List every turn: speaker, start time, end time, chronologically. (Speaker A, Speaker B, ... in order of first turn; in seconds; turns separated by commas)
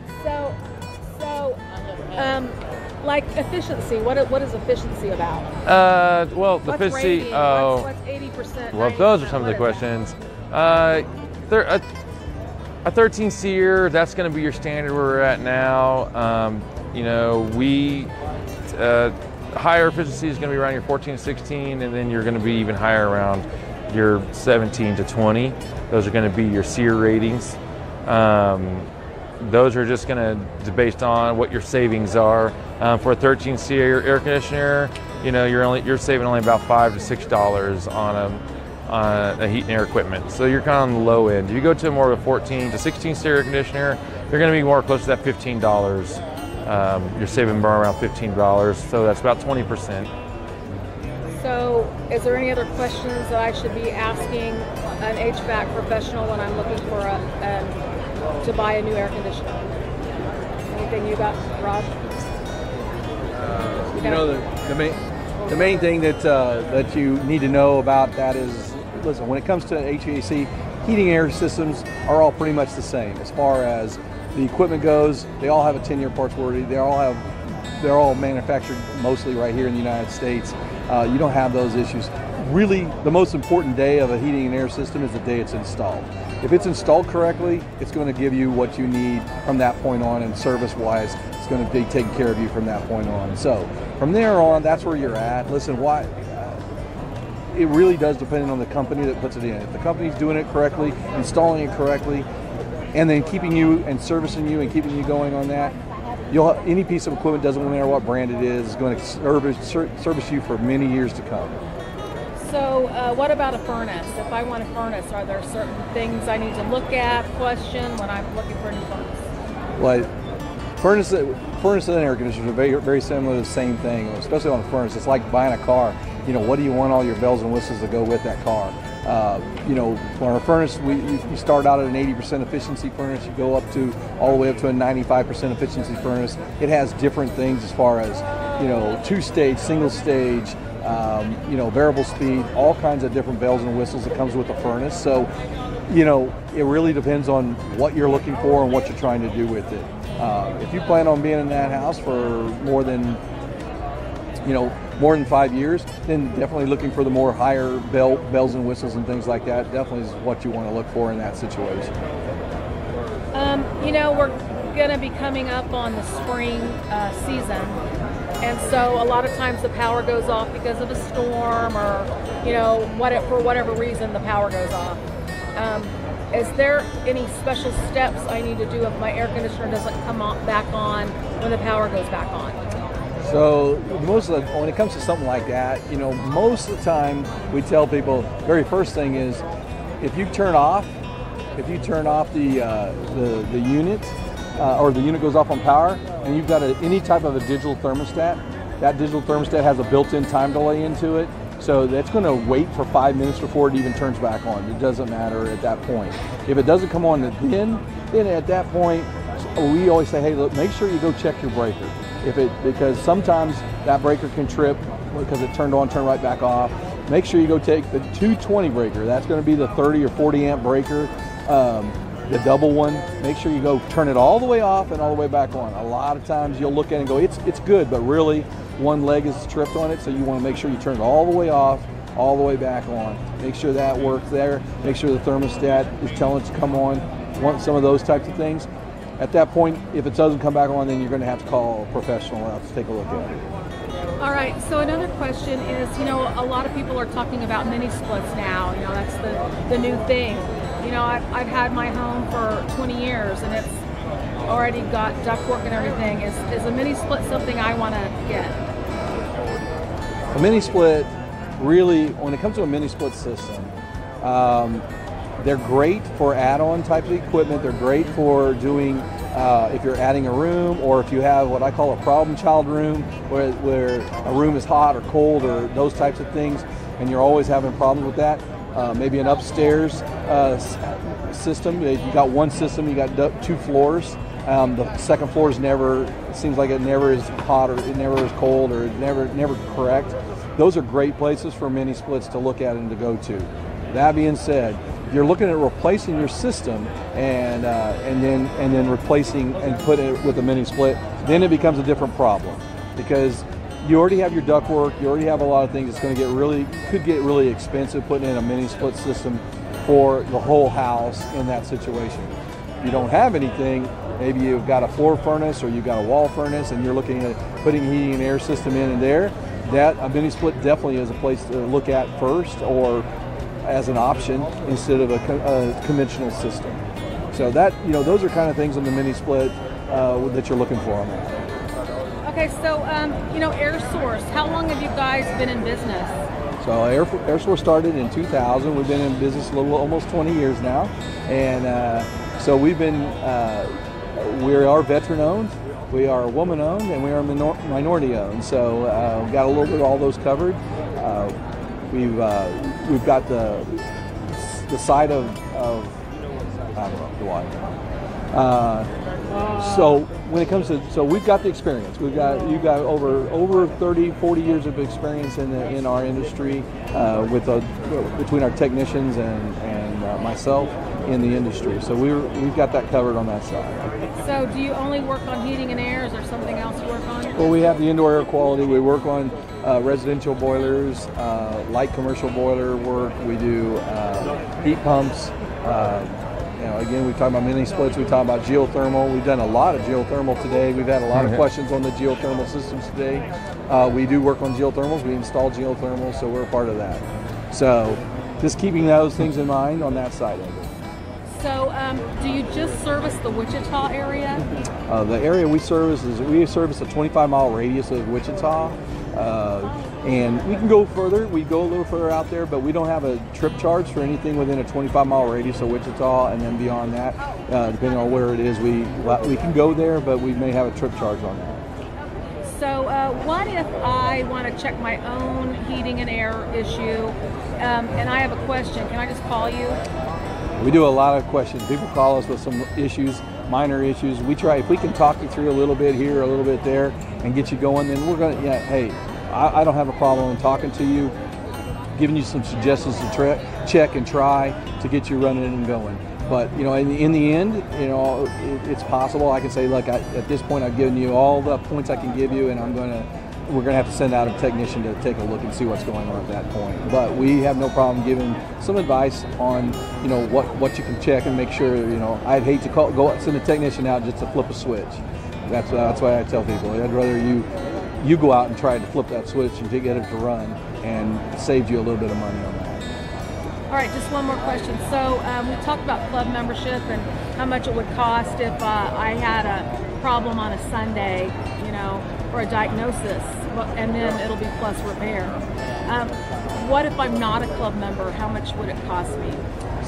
Speaker A: 0.1-1.6, Speaker A: 2.1-5.5, Speaker B: 5.6-7.9, Speaker A: 6.7-9.9, Speaker B: 8.7-11.8, Speaker B: 12.8-18.1, Speaker B: 18.7-28.9, Speaker B: 29.4-50.1, Speaker A: 51.3-57.8, Speaker A: 58.4-59.6, Speaker A: 60.7-62.0, Speaker C: 63.5-96.6, Speaker A: 64.0-64.3, Speaker C: 97.5-102.3, Speaker C: 102.9-105.8, Speaker C: 106.3-111.6, Speaker A: 112.4-119.3, Speaker C: 119.8-120.1, Speaker C: 120.8-145.3, Speaker C: 145.9-153.2, Speaker C: 154.4-161.9, Speaker A: 163.3-167.8, Speaker A: 168.4-175.0, Speaker A: 175.5-182.6, Speaker C: 183.2-189.4, Speaker C: 190.0-190.9, Speaker C: 191.6-238.7, Speaker C: 239.2-243.4, Speaker A: 244.2-253.8, Speaker A: 254.5-258.6, Speaker C: 260.3-264.8, Speaker C: 265.4-323.1, Speaker C: 323.6-326.8, Speaker C: 327.3-331.5, Speaker A: 332.2-336.2, Speaker C: 336.6-351.3, Speaker C: 351.9-355.9, Speaker C: 356.7-357.6, Speaker C: 358.3-358.9, Speaker C: 359.5-373.9, Speaker A: 374.2-377.5, Speaker C: 377.4-400.7, Speaker B: 391.1-391.4, Speaker A: 401.3-404.4, Speaker C: 404.9-421.6, Speaker A: 422.4-429.8, Speaker C: 430.6-441.1, Speaker C: 441.9-467.5, Speaker C: 468.0-472.9, Speaker A: 473.7-489.4